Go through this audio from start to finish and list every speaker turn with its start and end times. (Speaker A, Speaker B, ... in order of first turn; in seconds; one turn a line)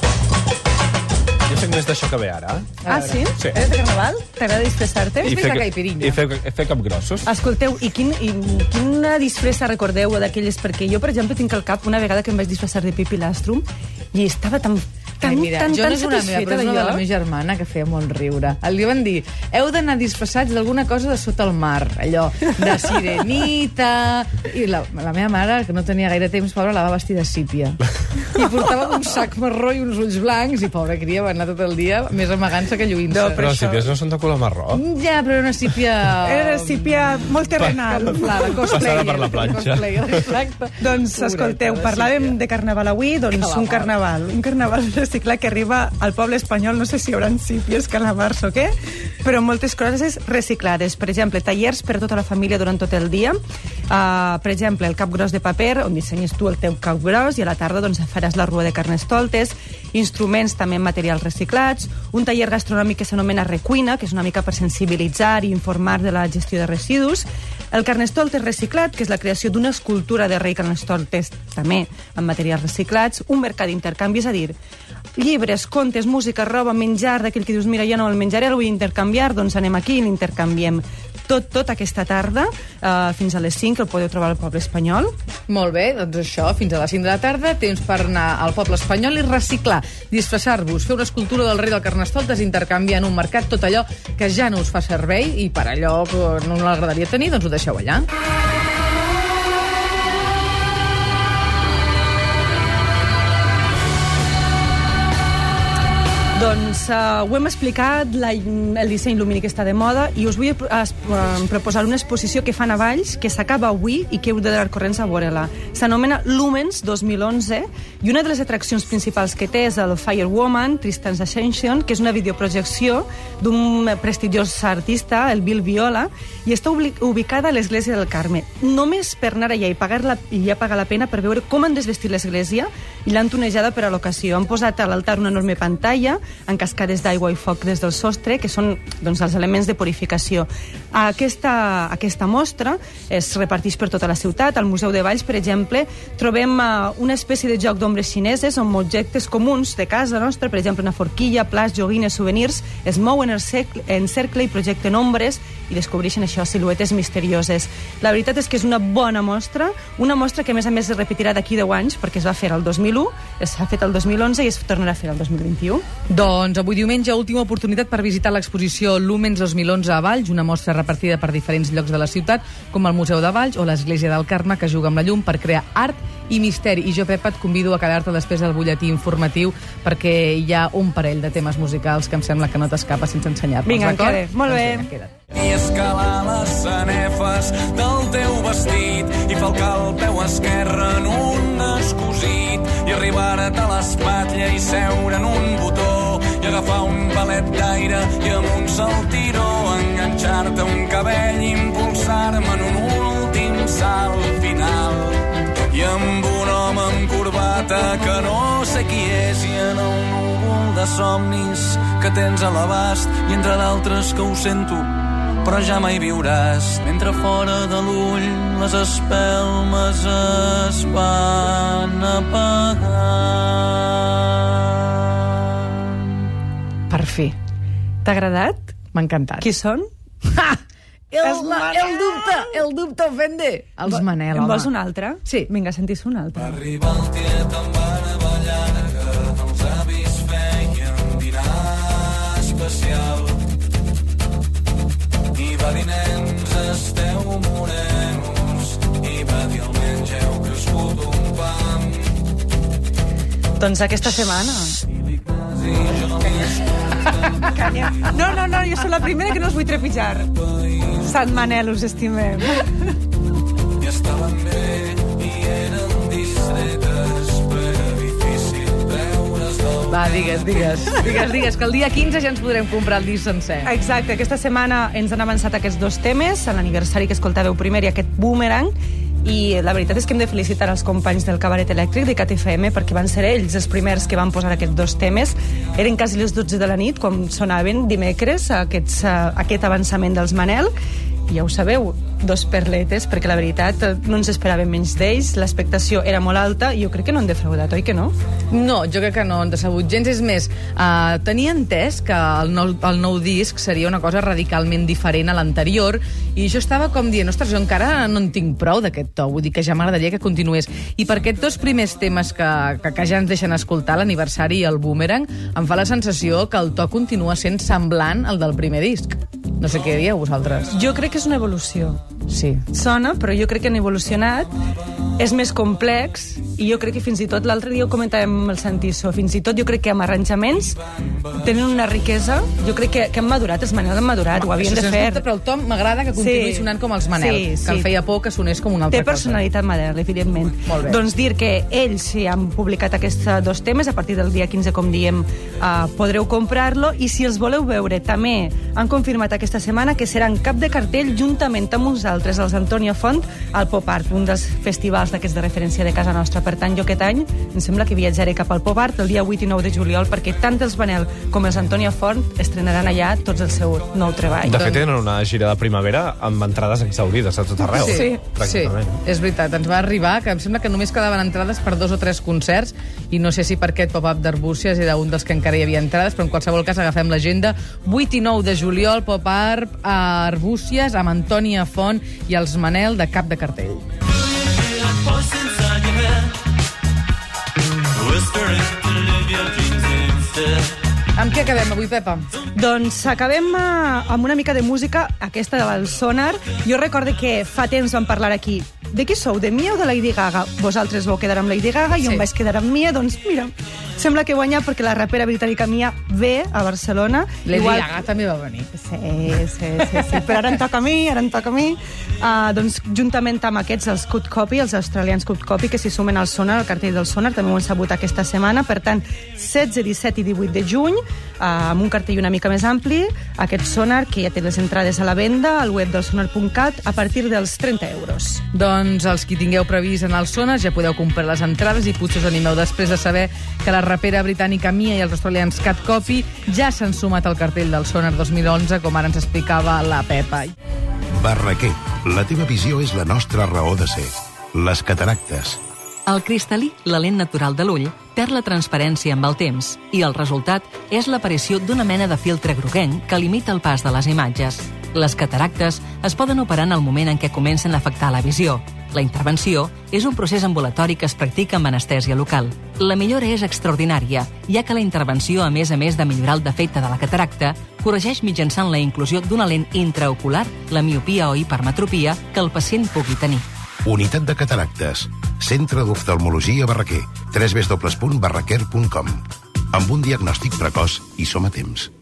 Speaker A: 1.5-3.5
Speaker B: 2.9-3.1
Speaker C: 2.9-5.3
Speaker B: 5.2-6.2
Speaker A: 5.2-7.2
Speaker C: 7.2-17.0
Speaker B: 15.2-33.5
Speaker C: 33.1-33.8
Speaker A: 33.2-34.8
Speaker B: 34.7-42.4
Speaker C: 36.2-38.9
Speaker A: 38.5-40.3
Speaker C: 40.8-53.4
Speaker B: 43.3-43.9
Speaker C: 53.9-74.5
Speaker C: 75.1-85.1
Speaker B: 85.5-98.1
Speaker C: 106.3-165.8
Speaker B: 166.1-185.2
Speaker C: 183.7-184.9
Speaker D: 185.3-214.9
Speaker D: 215.4-225.0
Speaker B: 226.9-227.3
Speaker C: 228.0-228.8
Speaker B: 228.9-229.5
Speaker C: 229.4-229.9
Speaker B: 230.3-230.6
Speaker B: 231.1-234.7
Speaker C: 231.2-232.4
Speaker C: 233.9-236.6
Speaker D: 236.5-243.4
Speaker D: 245.3-252.1
Speaker C: 253.6-254.8
Speaker D: 255.2-257.4
Speaker C: 257.3-262.7
Speaker D: 263.8-270.4
Speaker B: 269.9-273.7
Speaker C: 273.6-290.7
Speaker C: 291.3-298.1
Speaker B: 298.5-320.7
Speaker C: 320.7-322.0
Speaker B: 322.3-322.6
Speaker C: 322.7-324.5
Speaker C: 325.2-330.8
Speaker C: 331.3-335.2
Speaker B: 334.4-339.4
Speaker C: 336.1-337.9
Speaker C: 338.9-364.6
Speaker B: 340.7-341.0
Speaker A: 364.4-368.9
Speaker B: 364.5-364.8
Speaker B: 367.7-383.9
Speaker C: 367.8-368.2
Speaker D: 385.0-385.9
Speaker D: 388.0-390.7
Speaker B: 391.1-392.3
Speaker C: 392.5-408.0
Speaker B: 402.0-402.2
Speaker B: 407.4-408.7
Speaker C: 408.8-428.4
Speaker B: 428.5-440.5
Speaker E: 441.2-445.6
Speaker F: 446.1-473.4
Speaker E: 473.8-481.9